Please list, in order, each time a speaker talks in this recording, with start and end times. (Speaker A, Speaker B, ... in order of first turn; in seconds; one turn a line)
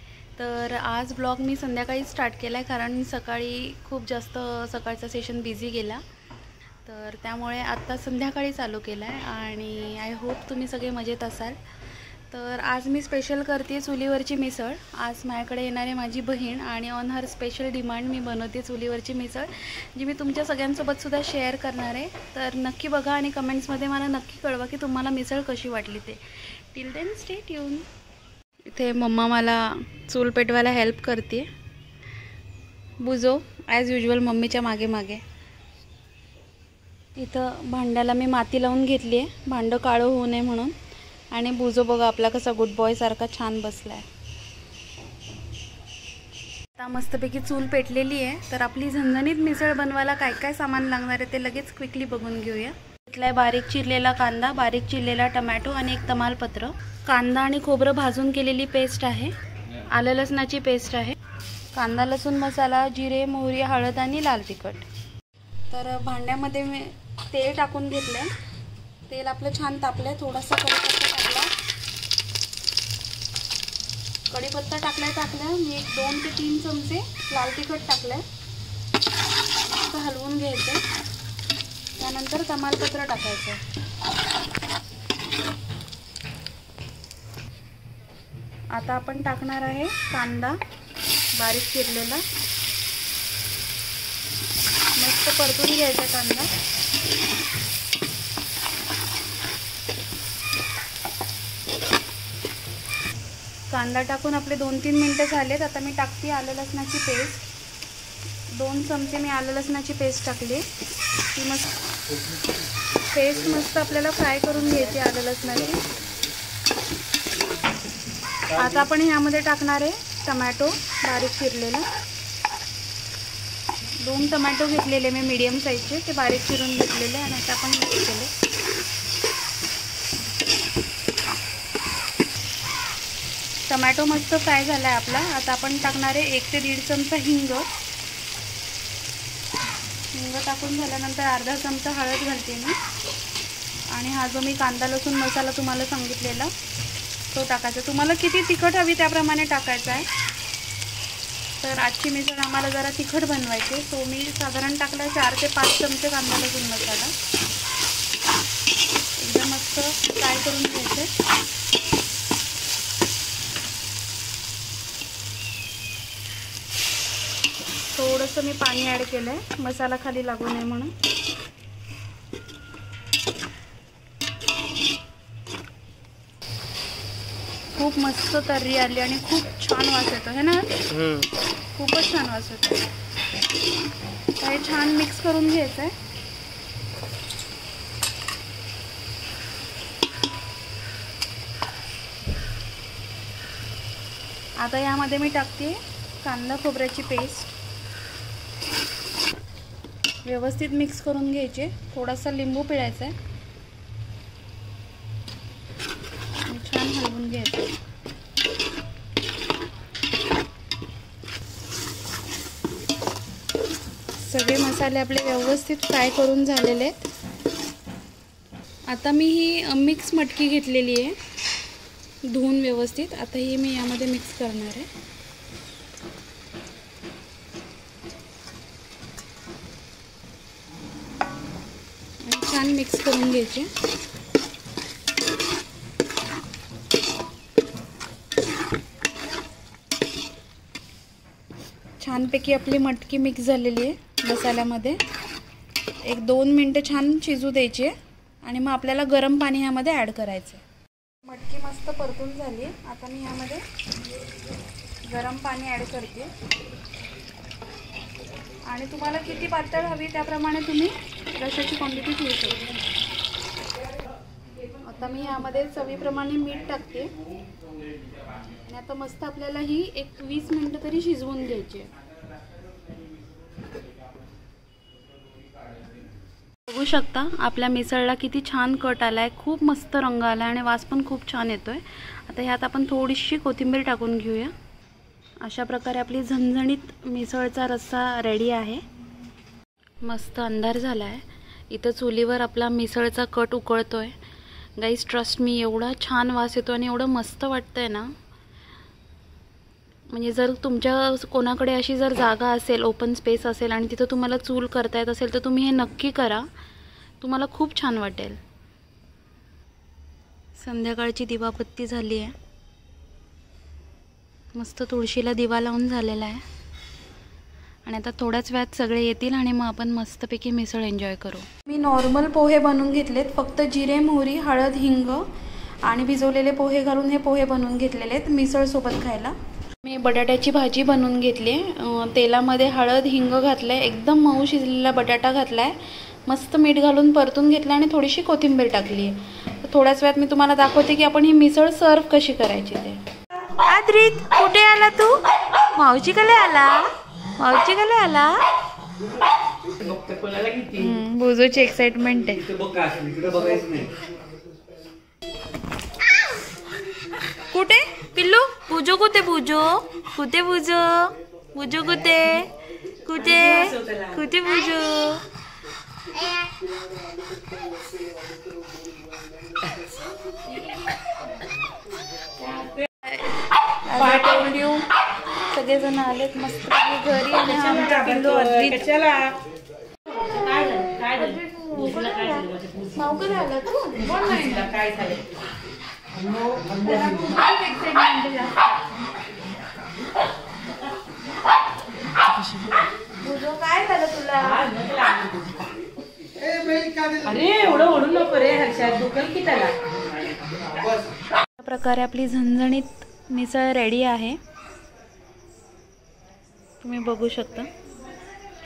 Speaker A: 0.3-6.0
Speaker A: 6.8-11.6
Speaker A: 12.3-27.9
Speaker A: 28.6-31.5
Speaker A: 33.0-35.2
Speaker A: 37.1-40.7
Speaker A: 41.3-44.0
Speaker A: 46.8-59.3
Speaker A: 59.9-61.2
Speaker A: 61.7-64.9
Speaker A: 65.7-68.3
Speaker A: 69.1-71.5
Speaker A: 74.3-78.2
Speaker A: 79.7-80.8
Speaker A: 82.0-83.6
Speaker A: 88.7-90.6
Speaker A: 91.3-92.2
Speaker A: 95.0-96.5
Speaker A: 103.7-107.4
Speaker A: 108.5-110.7
Speaker A: 111.3-111.8
Speaker A: 113.1-115.8
Speaker A: 118.5-121.9
Speaker A: 124.0-128.3
Speaker A: 133.7-137.7
Speaker A: 140.1-142.8
Speaker A: 143.9-146.5
Speaker A: 147.3-150.1
Speaker A: 151.6-157.1
Speaker A: 159.2-161.1
Speaker A: 167.9-170.9
Speaker A: 177.8-182.9
Speaker A: 184.4-185.9
Speaker A: 194.6-197.5
Speaker A: 200.2-203.1
Speaker A: 206.5-207.7
Speaker A: 214.2-217.1
Speaker A: 218.9-221.2
Speaker A: 222.2-224.9
Speaker A: 232.2-233.7
Speaker A: 242.0-245.0
Speaker A: 246.0-250.6
Speaker A: 251.2-253.6
Speaker A: 255.1-256.3
Speaker A: 258.7-262.6
Speaker A: 264.8-267.1
Speaker A: 268.6-271.9
Speaker A: 276.7-284.5
Speaker A: 285.4-288.8
Speaker A: 290.0-294.2
Speaker A: 294.8-298.1
Speaker A: 300.1-306.5
Speaker A: 307.2-308.4
Speaker A: 310.5-312.3
Speaker A: 314.5-316.4
Speaker A: 317.9-325.3
Speaker A: 325.8-343.0
Speaker A: 343.5-348.4
Speaker B: 349.8-350.9
Speaker A: 350.7-352.6
Speaker B: 352.6-353.9
Speaker A: 357.5-362.5
Speaker A: 363.0-365.2
Speaker B: 363.2-364.2
Speaker B: 372.4-372.9
Speaker A: 373.0-374.9
Speaker B: 373.9-374.5
Speaker A: 375.5-378.8
Speaker B: 377.4-379.4
Speaker B: 380.1-383.0
Speaker A: 381.1-384.7
Speaker B: 384.0-385.3
Speaker B: 386.3-387.2
Speaker A: 386.8-388.7
Speaker A: 393.2-394.7
Speaker B: 394.5-395.5
Speaker B: 396.5-399.8
Speaker A: 401.6-404.4
Speaker A: 406.8-407.7